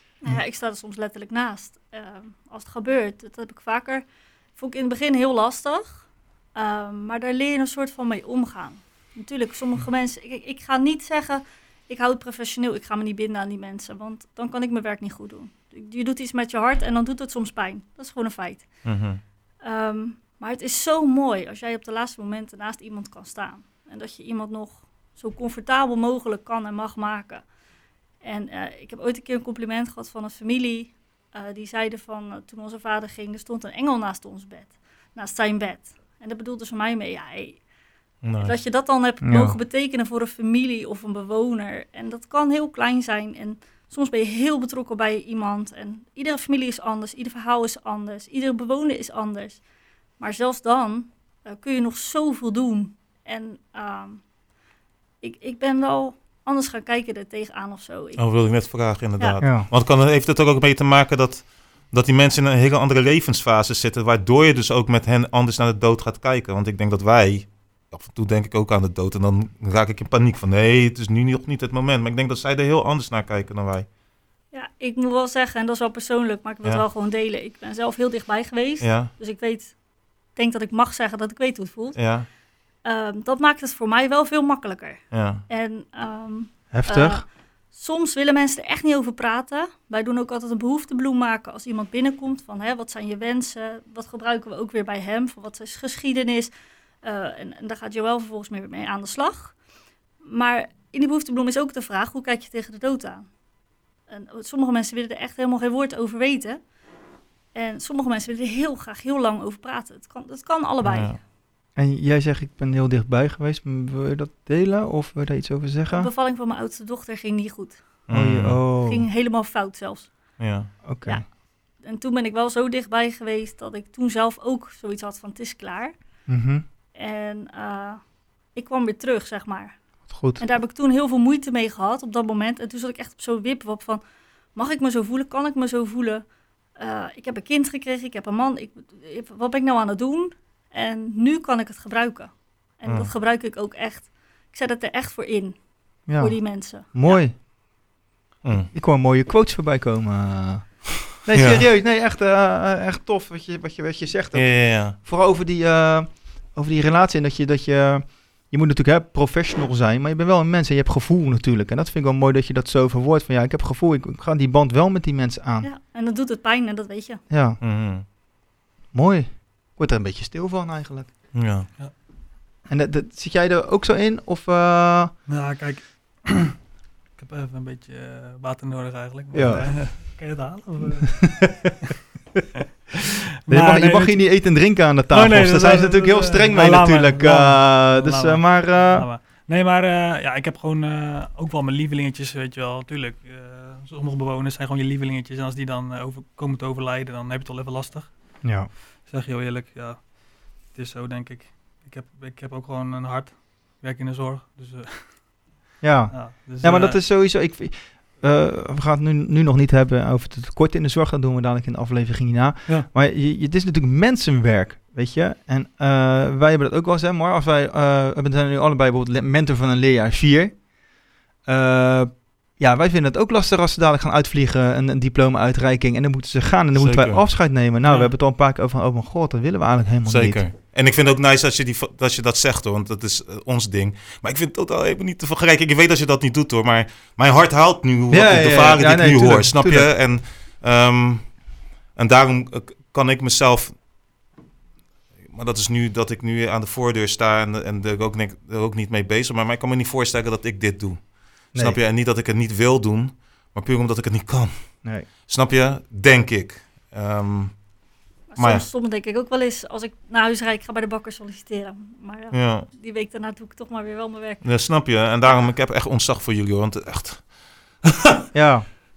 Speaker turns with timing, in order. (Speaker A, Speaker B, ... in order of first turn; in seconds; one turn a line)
Speaker A: 0.2-19.1
Speaker B: 18.8-19.2
Speaker A: 19.6-27.5
Speaker A: 28.2-37.6
Speaker B: 38.2-38.5
Speaker A: 38.4-49.6
Speaker C: 39.2-39.6
Speaker A: 50.2-54.3
Speaker A: 55.2-58.7
Speaker B: 58.2-73.9
Speaker C: 59.4-59.7
Speaker A: 74.5-96.5
Speaker B: 78.8-79.1
Speaker B: 81.9-82.3
Speaker B: 85.1-85.4
Speaker C: 86.7-87.2
Speaker A: 97.0-99.6
Speaker A: 100.2-103.3
Speaker A: 104.1-106.7
Speaker A: 107.5-111.2
Speaker B: 110.8-111.2
Speaker C: 111.7-116.1
Speaker A: 115.9-118.0
Speaker B: 118.1-118.6
Speaker C: 118.1-119.1
Speaker A: 118.8-126.3
Speaker B: 120.4-120.7
Speaker C: 120.8-121.2
Speaker C: 126.3-126.6
Speaker A: 126.9-147.3
Speaker C: 130.1-130.4
Speaker B: 142.8-143.1
Speaker C: 146.1-147.3
Speaker B: 148.4-148.7
Speaker C: 148.7-165.7
Speaker B: 151.3-151.6
Speaker B: 154.3-154.9
Speaker A: 165.6-167.2
Speaker C: 167.3-168.1
Speaker B: 167.6-168.0
Speaker C: 168.9-171.6
Speaker B: 171.3-171.7
Speaker C: 172.6-175.2
Speaker D: 175.2-176.6
Speaker D: 177.1-181.8
Speaker C: 179.3-180.2
Speaker C: 183.5-189.1
Speaker D: 183.5-207.0
Speaker C: 198.4-198.7
Speaker C: 205.8-220.7
Speaker C: 221.4-230.5
Speaker B: 226.7-227.5
Speaker D: 227.8-228.1
Speaker B: 230.1-243.8
Speaker C: 238.1-239.9
Speaker B: 245.2-257.7
Speaker C: 251.5-251.8
Speaker A: 258.3-265.4
Speaker B: 258.3-258.6
Speaker B: 262.3-262.7
Speaker B: 264.4-268.0
Speaker C: 268.3-268.7